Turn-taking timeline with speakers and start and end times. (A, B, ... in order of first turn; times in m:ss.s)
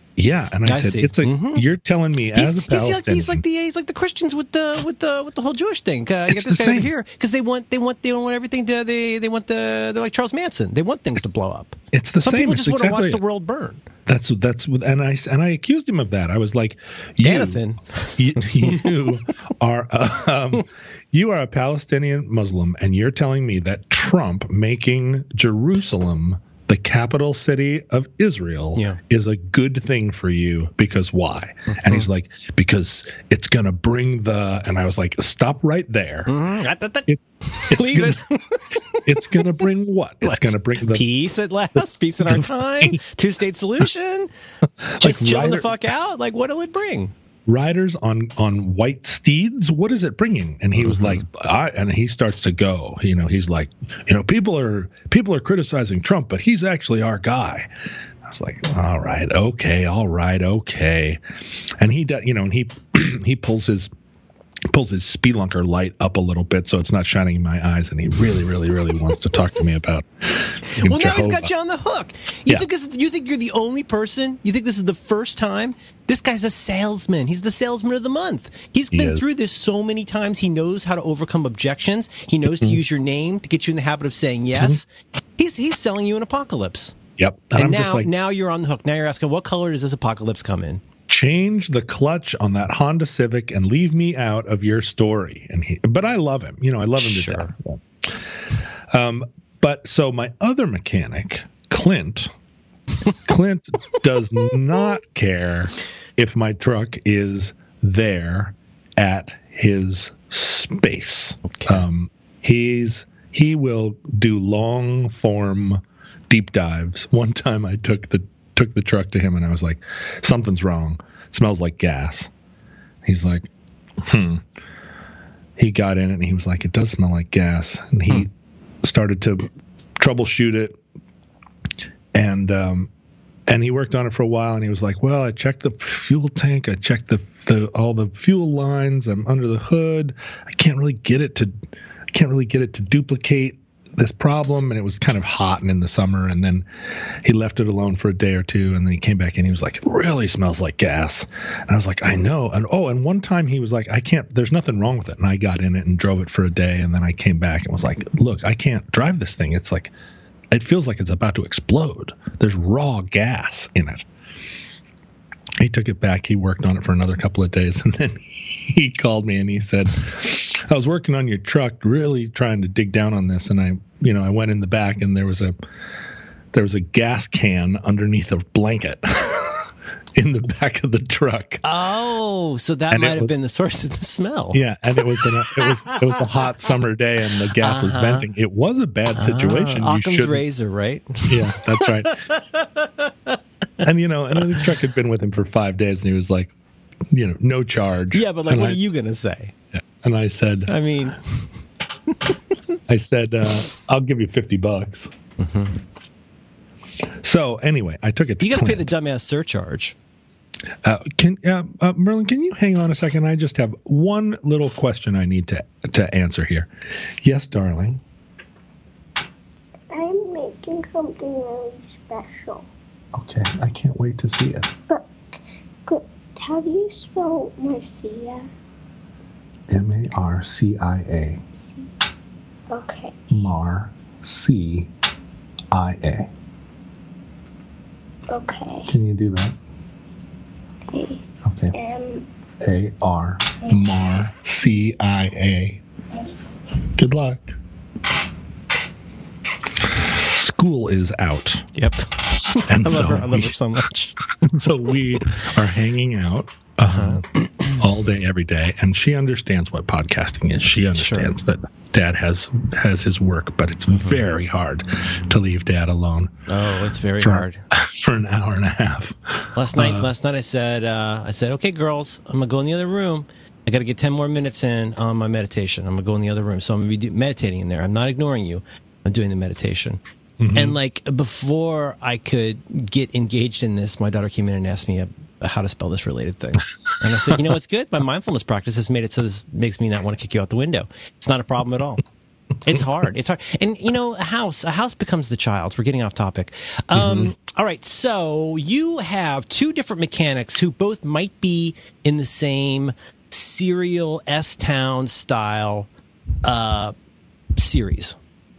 0:00.2-0:03.4 A
0:00.6-0:01.6 B
0:02.3-0:13.8 B
0:06.3-0:06.9 A
0:11.9-0:13.2 A
0:14.0-0:17.6 A
0:17.2-0:19.0 B
0:18.2-0:36.3 A
0:31.7-0:32.0 B
0:36.3-0:39.5 B
0:37.1-0:38.2 A
0:39.0-0:41.0 A
0:40.2-0:44.3 B
0:42.2-0:43.0 A
0:44.8-0:45.7 A
0:45.0-0:47.1 B
0:47.5-0:57.7 A
0:50.8-0:51.2 B
0:58.2-1:01.2 A
1:01.8-1:03.9 A
1:04.7-1:11.5 A
1:10.7-1:27.0 B
1:18.9-1:19.2 A
1:24.5-1:24.8 A
1:27.2-1:28.1 A
1:27.6-1:30.8 B
1:31.1-1:38.2 A
1:37.0-1:37.5 B
1:38.9-1:42.3 A
1:43.2-2:02.3 A
1:51.5-1:51.8 B
2:03.0-2:04.4 A
2:05.6-2:08.3 A
2:08.8-2:10.8 A
2:12.1-2:12.9 A
2:13.5-2:21.6 A
2:22.1-2:39.9 A
2:40.5-2:44.0 A
2:45.6-2:55.5 A
2:56.5-3:01.6 A
3:01.6-3:04.6 B
3:02.9-3:03.3 A
3:04.5-3:10.4 A
3:05.6-3:06.0 B
3:07.6-3:08.3 B
3:09.1-3:13.4 B
3:11.3-3:12.2 A
3:13.8-3:16.5 A
3:17.1-3:18.8 A
3:18.1-3:19.5 B
3:19.7-3:20.7 A
3:20.7-3:21.5 B
3:22.9-3:25.1 A
3:25.4-3:25.8 B
3:27.2-3:28.9 A
3:28.4-3:30.0 B
3:30.8-3:36.7 A
3:37.2-3:38.0 A
3:39.9-3:42.6 C
3:43.1-3:44.7 A
3:45.8-3:48.5 C
3:49.7-3:51.7 A
3:52.7-3:53.1 C
3:53.3-3:54.9 A
3:55.7-3:56.3 A
3:58.3-3:58.9 C
3:58.9-3:59.5 A
4:00.9-4:01.2 C
4:01.4-4:01.7 A
4:01.7-4:02.3 C
4:02.6-4:05.8 A
4:07.0-4:07.6 A
4:09.9-4:11.7 A
4:11.8-4:14.2 B
4:12.6-4:13.5 A
4:14.3-4:26.3 A
4:16.8-4:17.8 B
4:20.9-4:21.3 B
4:26.5-4:27.6 B
4:27.2-4:30.1 A
4:29.6-4:40.0 B
4:40.4-4:40.8 A
4:40.5-4:52.0 B
4:52.6-5:05.9 B
4:57.0-4:57.3 A
5:06.4-5:06.9 B
5:07.6-5:08.2 B